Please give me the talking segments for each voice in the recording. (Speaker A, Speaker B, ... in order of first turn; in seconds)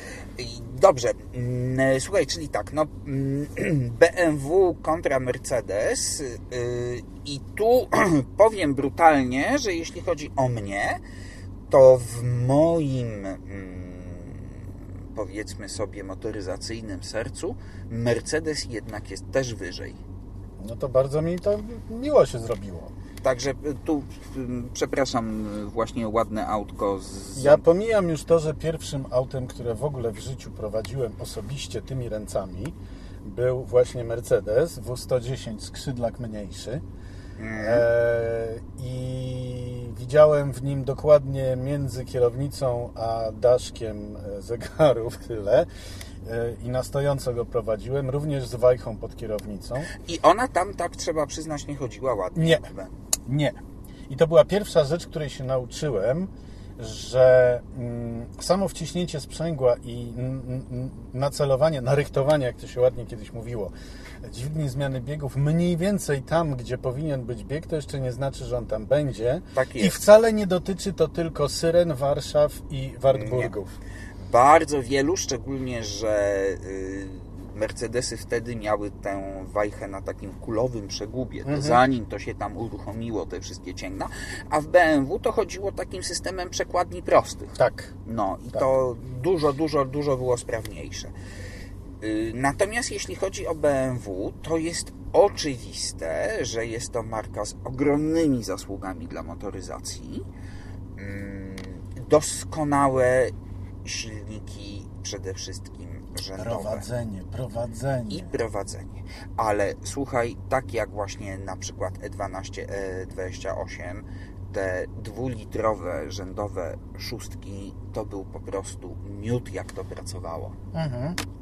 Speaker A: 0.4-11.0, 11.7-20.0, 23.2-27.6, 37.4-37.9, 50.0-52.9, 69.5-70.0, 73.1-73.5, 74.2-91.1, 92.0-100.2, 101.0-103.3, 103.8-106.8, 108.1-120.5
Speaker B: 20.6-22.9, 27.4-36.8, 37.6-45.7, 46.2-49.9, 52.3-52.6, 53.2-53.6, 54.1-73.7, 81.5-81.8, 87.6-87.9, 106.4-108.4, 120.7-121.2